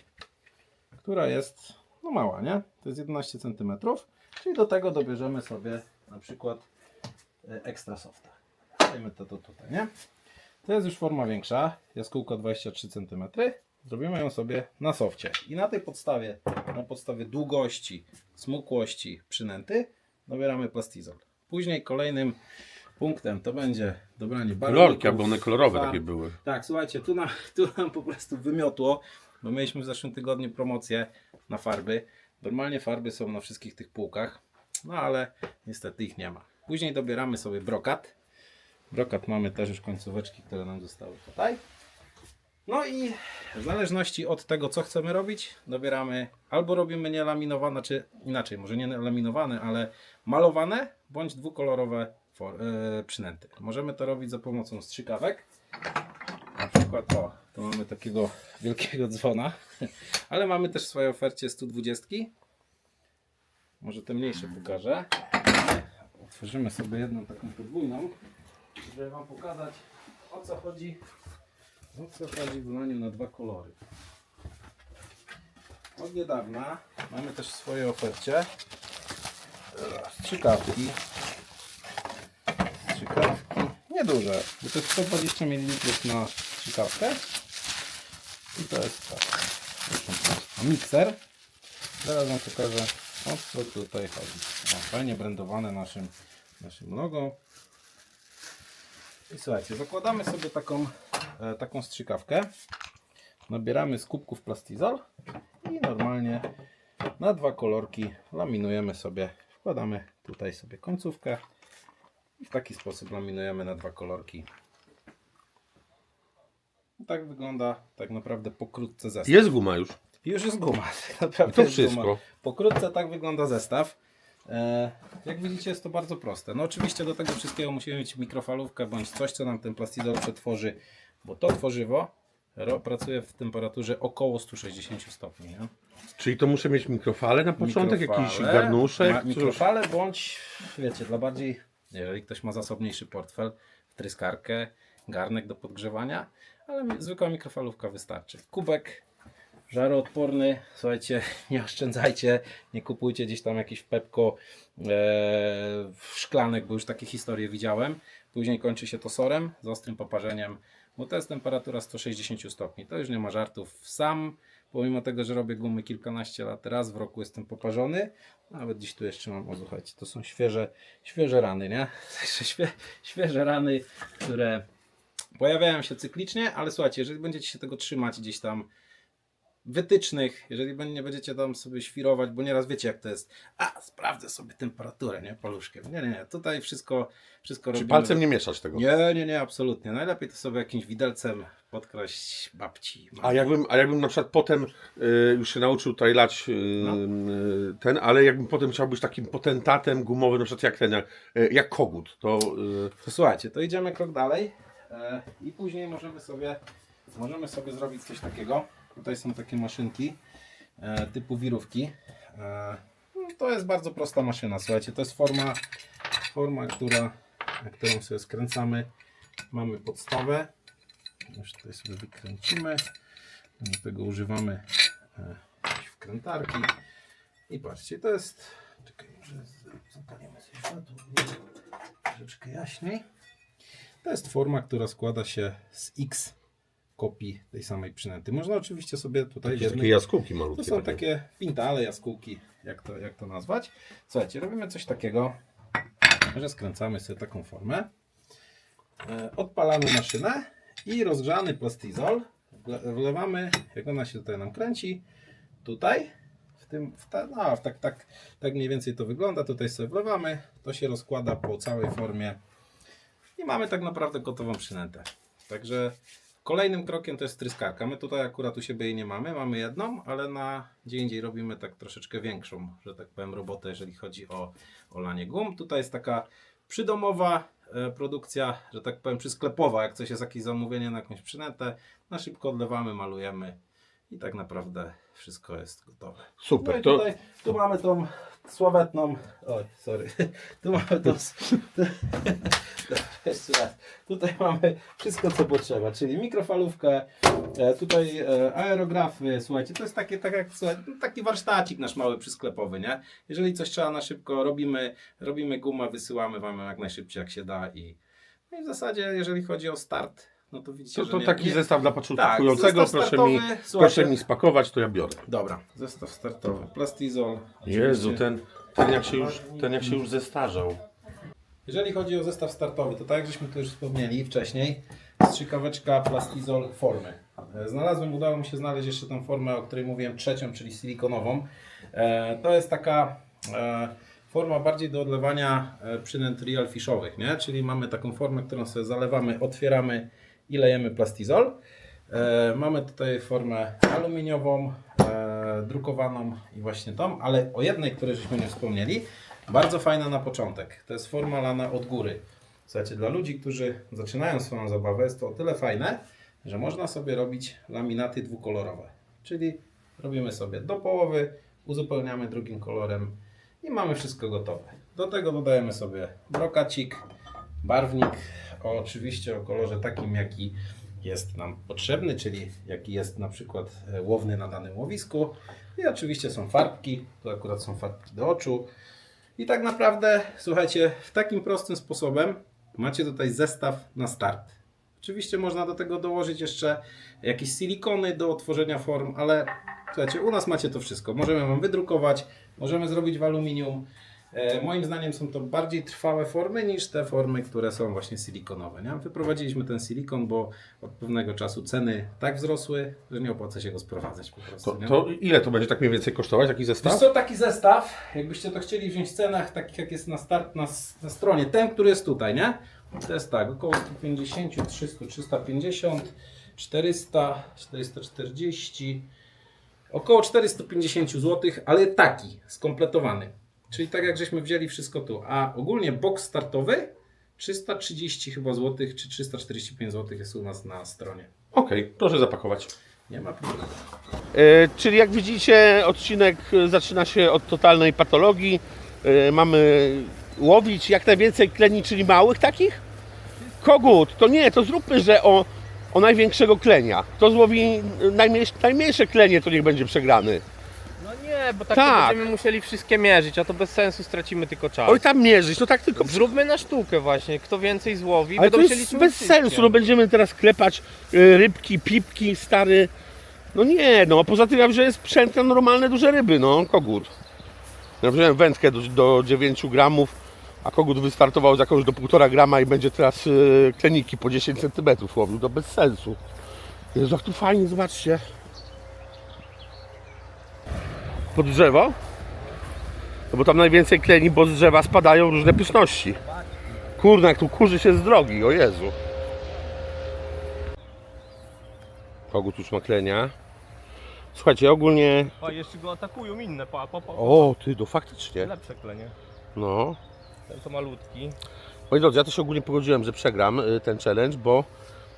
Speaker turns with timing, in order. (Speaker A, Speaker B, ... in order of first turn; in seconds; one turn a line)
Speaker A: 1.0-6.7
Speaker A: 7.4-9.9
Speaker A: 10.6-22.4
Speaker A: 23.0-38.1
Speaker B: 24.6-26.4
Speaker A: 38.9-41.6
Speaker A: 42.7-55.4
Speaker A: 56.6-62.3
Speaker A: 63.8-68.1
Speaker A: 68.8-71.0
Speaker A: 71.9-73.8
Speaker A: 76.0-78.5
Speaker A: 79.7-81.0
Speaker A: 82.8-87.3
Speaker A: 88.5-91.2
Speaker A: 92.0-97.3
Speaker A: 99.3-102.5
Speaker A: 103.5-105.0
Speaker A: 105.6-106.4
Speaker A: 107.2-111.4
Speaker A: 112.4-114.5
Speaker A: 117.0-119.5
Speaker B: 119.2-120.0
Speaker A: 120.2-124.0
Speaker B: 121.5-122.2
Speaker A: 124.5-135.7
Speaker B: 136.2-139.6
Speaker A: 137.6-149.0
Speaker A: 149.7-174.6
Speaker A: 175.4-178.7
Speaker A: 179.6-188.2
Speaker B: 187.7-188.8
Speaker A: 188.7-193.5
Speaker B: 193.2-202.9
Speaker A: 203.0-206.6
Speaker A: 207.1-210.2
Speaker A: 210.8-215.6
Speaker A: 216.3-218.9
Speaker A: 219.5-220.5
Speaker A: 221.3-222.8
Speaker A: 223.6-224.6
Speaker A: 225.2-226.7
Speaker A: 227.5-231.4
Speaker A: 232.1-233.0
Speaker A: 234.0-236.3
Speaker A: 237.0-239.9
Speaker B: 239.5-241.0
Speaker A: 240.5-245.3
Speaker A: 246.3-247.9
Speaker A: 249.1-255.0
Speaker A: 255.6-256.1
Speaker A: 256.6-262.4
Speaker A: 263.4-283.6
Speaker A: 284.1-308.0
Speaker B: 286.4-287.0
Speaker A: 308.5-314.2
Speaker B: 310.9-315.2
Speaker A: 315.3-318.3
Speaker B: 317.6-320.8
Speaker A: 318.9-320.0
Speaker A: 321.7-341.6
Speaker A: 342.1-367.0
Speaker A: 367.6-378.7
Speaker A: 379.4-405.0
Speaker B: 404.6-407.1
Speaker A: 406.8-419.1
Speaker A: 419.9-431.3
Speaker B: 431.5-432.7
Speaker A: 433.1-433.8
Speaker B: 434.3-442.8
Speaker B: 443.4-450.4
Speaker C: 451.0-455.0
Speaker B: 451.7-452.3
Speaker B: 454.9-456.3
Speaker C: 455.9-459.7
Speaker B: 458.4-462.9
Speaker B: 463.5-467.1
Speaker B: 468.0-476.2
Speaker B: 476.9-478.2
Speaker B: 481.3-482.0
Speaker B: 483.3-486.2
Speaker B: 487.0-488.9
Speaker B: 492.3-493.3
Speaker B: 494.3-495.3
Speaker C: 495.4-497.5
Speaker B: 497.1-498.5
Speaker C: 498.4-499.1
Speaker B: 499.5-500.0
Speaker C: 500.5-501.4
Speaker B: 501.9-504.7